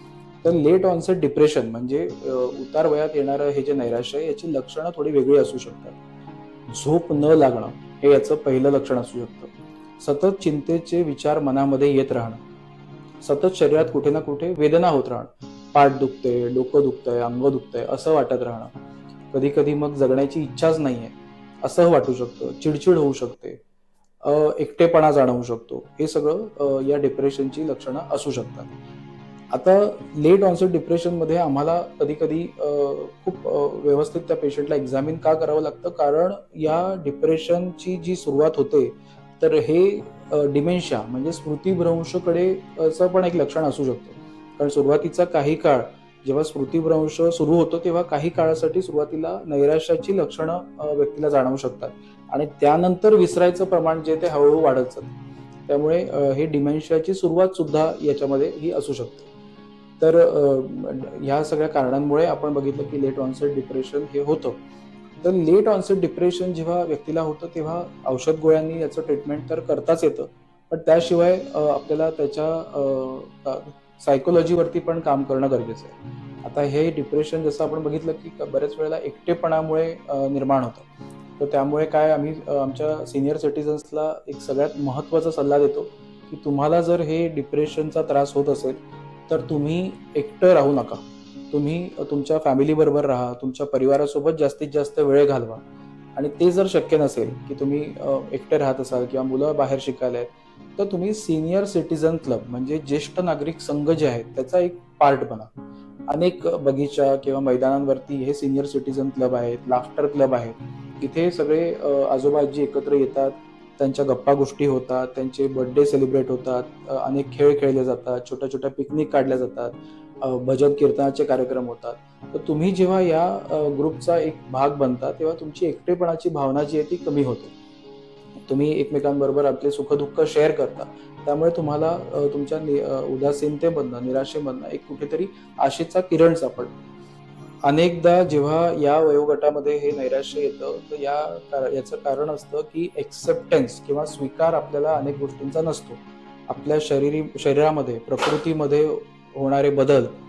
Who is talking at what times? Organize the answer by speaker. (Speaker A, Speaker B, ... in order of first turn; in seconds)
Speaker A: 0.4-6.0, 6.7-12.4, 13.2-18.7, 19.3-23.6, 24.2-28.7, 29.5-55.1, 55.7-59.3, 60.0-64.6, 65.2-80.8, 81.4-88.8, 89.3-95.6, 96.1-105.5, 106.1-127.5, 128.4-136.8, 137.6-150.1